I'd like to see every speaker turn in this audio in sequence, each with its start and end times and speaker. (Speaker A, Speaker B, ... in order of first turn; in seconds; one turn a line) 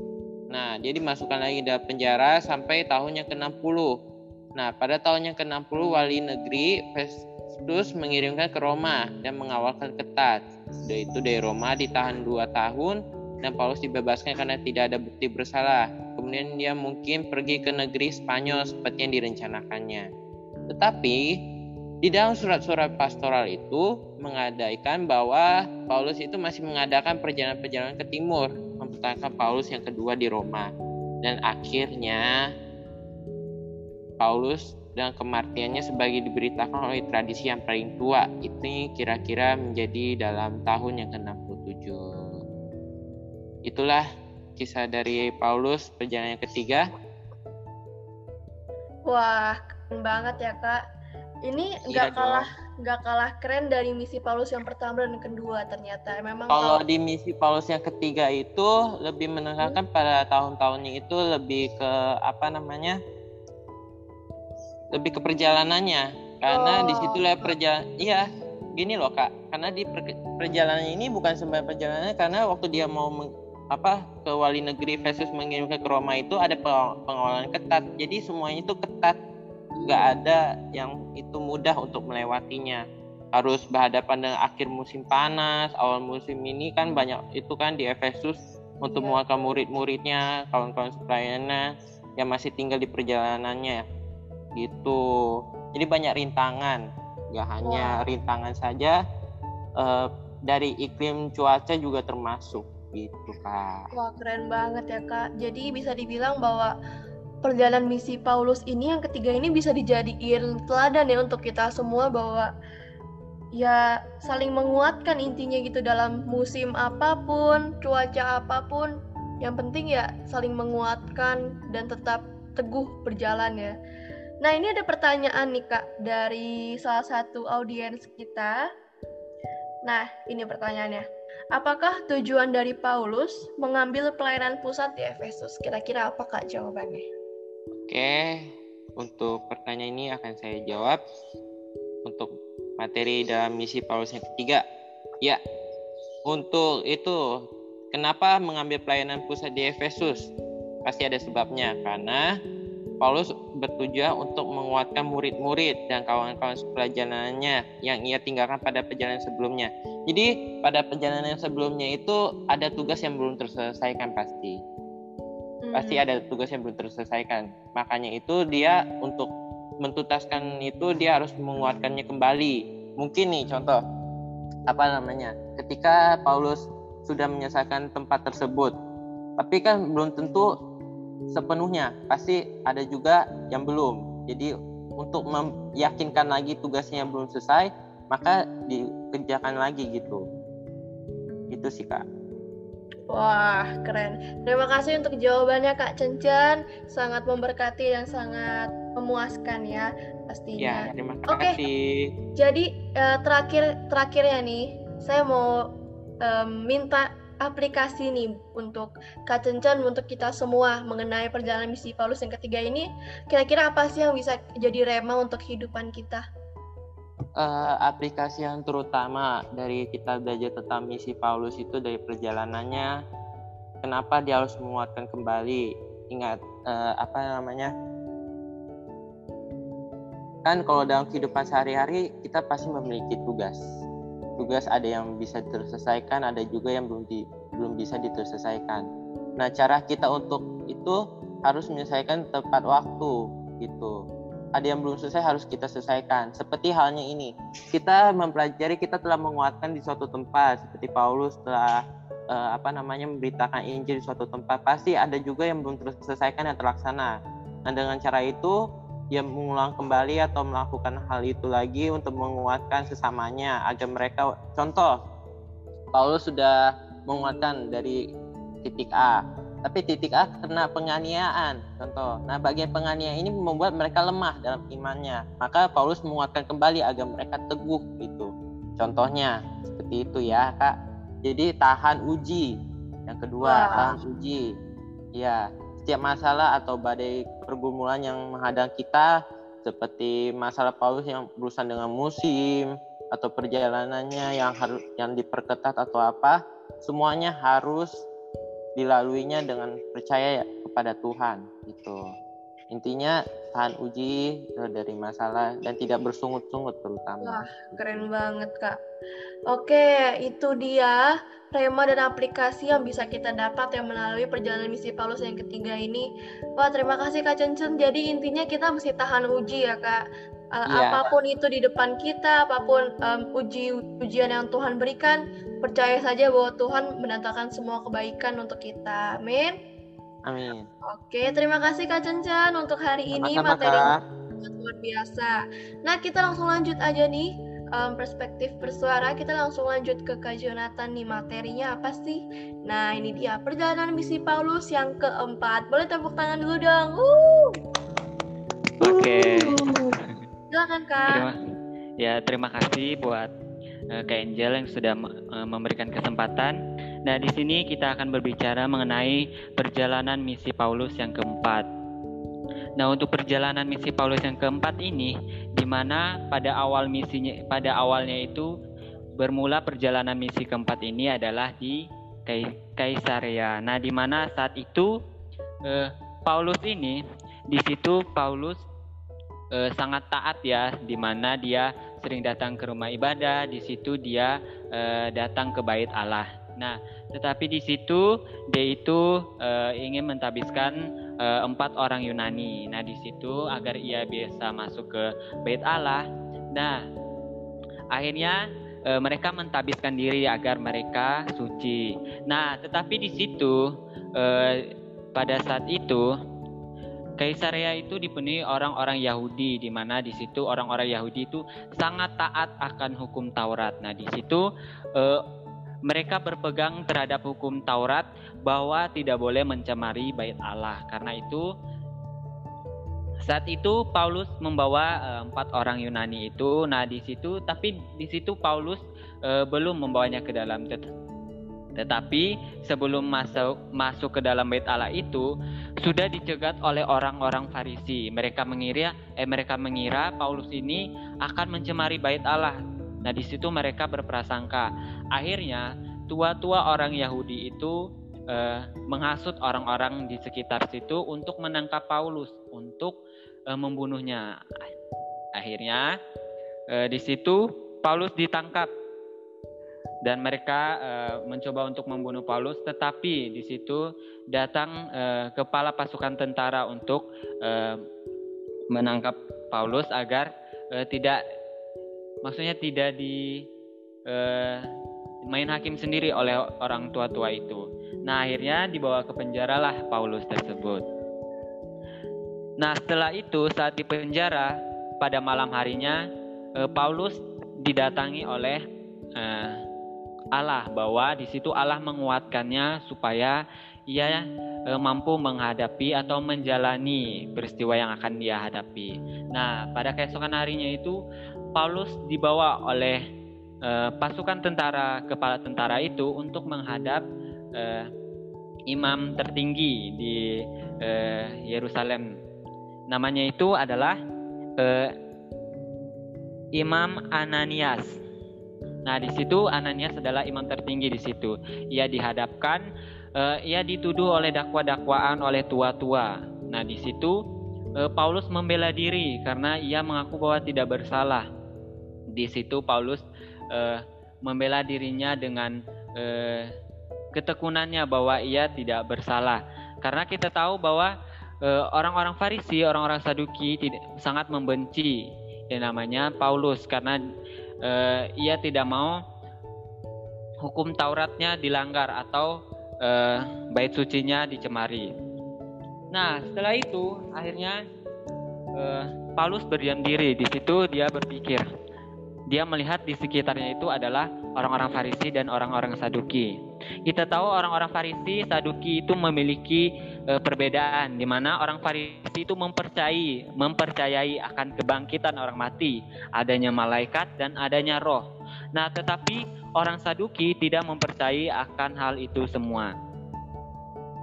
Speaker A: 0.5-3.9
Speaker A: 4.6-20.1
Speaker A: 20.7-21.2
Speaker A: 22.0-30.7
Speaker A: 31.2-32.3
Speaker A: 34.2-42.4
Speaker A: 43.7-44.0
Speaker A: 44.6-46.8
Speaker B: 49.1-50.8
Speaker B: 51.4-56.8
Speaker A: 51.9-52.5
Speaker A: 56.5-63.0
Speaker A: 64.9-68.2
Speaker B: 66.5-67.5
Speaker A: 68.8-79.2
Speaker B: 79.8-80.2
Speaker A: 79.8-82.8
Speaker A: 83.3-91.6
Speaker B: 88.8-89.2
Speaker A: 92.2-93.8
Speaker A: 94.6-95.0
Speaker A: 95.7-96.8
Speaker A: 97.3-99.0
Speaker B: 97.6-98.0
Speaker A: 99.8-103.8
Speaker B: 103.9-106.7
Speaker B: 107.4-112.5
Speaker B: 113.5-123.7
Speaker B: 124.4-128.6
Speaker B: 129.8-131.0
Speaker B: 131.6-137.1
Speaker A: 137.9-141.0
Speaker A: 142.1-144.6
Speaker A: 146.3-147.2
Speaker A: 147.9-150.3
Speaker A: 150.9-152.3
Speaker A: 153.0-164.6
Speaker B: 165.6-166.0
Speaker A: 165.7-169.3
Speaker A: 169.8-173.8
Speaker A: 174.7-178.7
Speaker A: 179.4-180.5
Speaker A: 181.3-190.2
Speaker A: 191.5-192.1
Speaker B: 193.1-201.6
Speaker A: 200.6-202.1
Speaker B: 202.4-205.6
Speaker B: 206.2-216.2
Speaker A: 217.4-222.9
Speaker A: 223.8-227.7
Speaker A: 230.4-233.6
Speaker A: 234.4-238.9
Speaker A: 239.4-243.9
Speaker A: 244.6-251.8
Speaker A: 252.3-257.1
Speaker A: 257.7-258.6
Speaker A: 259.1-264.9
Speaker A: 265.9-266.6
Speaker A: 267.1-268.0
Speaker A: 268.6-282.5
Speaker A: 283.1-284.4
Speaker B: 283.4-283.9
Speaker A: 285.2-289.1
Speaker A: 289.6-298.0
Speaker A: 298.8-302.0
Speaker A: 302.7-308.0
Speaker B: 307.2-308.8
Speaker B: 309.5-320.0
Speaker B: 320.6-329.5
Speaker A: 320.7-321.1
Speaker A: 330.3-330.7
Speaker B: 330.9-333.9
Speaker A: 333.1-334.0
Speaker B: 334.4-347.6
Speaker C: 348.8-349.9
Speaker B: 348.8-349.8
Speaker B: 350.5-351.3
Speaker C: 351.1-351.3
Speaker C: 352.0-353.3
Speaker C: 353.9-361.7
Speaker C: 362.8-368.5
Speaker C: 369.2-374.9
Speaker C: 375.7-378.6
Speaker C: 379.6-396.8
Speaker C: 397.9-403.6
Speaker C: 404.2-406.1
Speaker C: 407.2-415.2
Speaker C: 415.9-421.5
Speaker C: 423.2-430.8
Speaker C: 431.8-435.3
Speaker C: 435.8-447.8
Speaker C: 448.3-453.0
Speaker C: 453.5-454.2
Speaker C: 455.4-455.9
Speaker C: 456.7-458.7
Speaker C: 460.1-467.8
Speaker C: 468.7-471.2
Speaker C: 472.2-473.4
Speaker C: 474.1-474.7
Speaker C: 475.3-480.8
Speaker C: 482.6-486.0
Speaker C: 486.6-488.6
Speaker C: 489.2-489.6
Speaker C: 490.3-493.4
Speaker C: 493.9-501.0
Speaker C: 501.6-503.0
Speaker C: 503.7-507.0
Speaker C: 507.6-507.9
Speaker C: 508.7-510.2
Speaker C: 510.8-512.2
Speaker C: 512.9-514.0
Speaker C: 514.6-514.9
Speaker C: 516.6-518.0
Speaker C: 518.9-522.6
Speaker C: 523.2-527.2
Speaker C: 527.8-531.3
Speaker C: 532.1-536.5
Speaker C: 537.1-547.0
Speaker C: 547.6-549.0
Speaker C: 550.4-554.9
Speaker C: 555.9-557.6
Speaker C: 558.6-561.5
Speaker C: 562.3-566.4
Speaker C: 566.9-582.8